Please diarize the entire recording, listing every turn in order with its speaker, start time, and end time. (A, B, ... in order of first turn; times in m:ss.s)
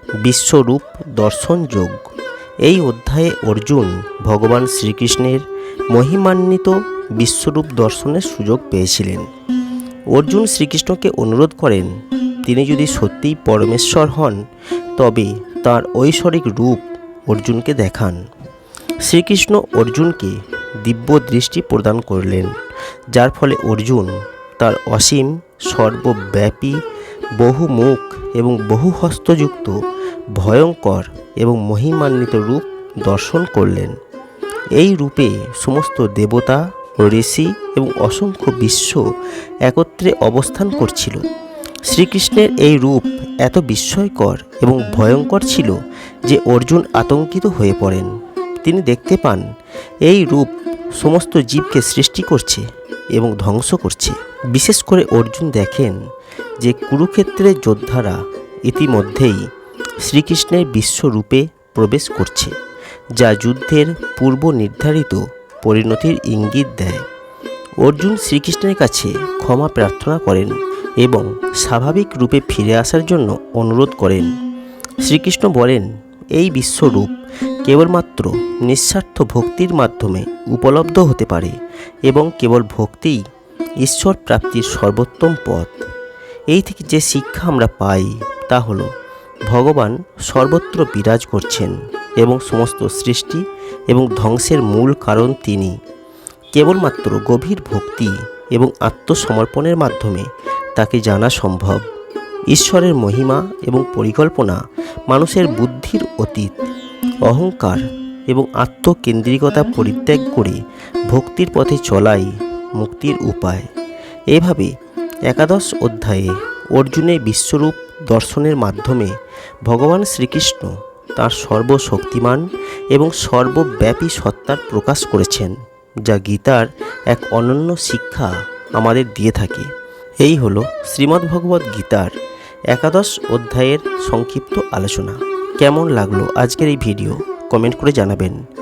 0:00.2-0:02.0 A
0:02.6-0:09.2 A
0:10.1-0:11.9 A
0:12.4-0:14.4 A
0:15.0-0:18.2 A
0:19.0-0:22.5 A
0:23.1-0:26.8 A
0:27.4-0:29.7 A
0:30.4-0:33.9 A
0:34.8-0:39.0 A
0:39.7-0:41.2 A
0:41.9-0:48.1 A
0:48.6-0:49.4 A
0:50.1-0:56.0 A
0:56.6-0:59.4 A
1:00.0-1:02.5 A
1:03.2-1:07.0 A
1:07.8-1:14.3 A
1:15.0-1:17.1 A
1:17.6-1:21.5 A
1:22.1-1:23.2 A
1:23.8-1:25.7 A
1:26.5-1:28.9 A
1:29.5-1:35.7 A
1:36.5-1:41.8 A
1:42.5-1:44.6 A
1:45.1-1:46.7 A
1:47.3-1:50.6 A
1:51.1-1:52.3 A
1:52.8-1:53.6 A
1:54.3-1:54.7 A
1:55.3-1:59.1 A
1:59.7-2:05.5 A
2:06.1-2:09.7 A
2:10.2-2:12.1 A
2:12.7-2:18.4 A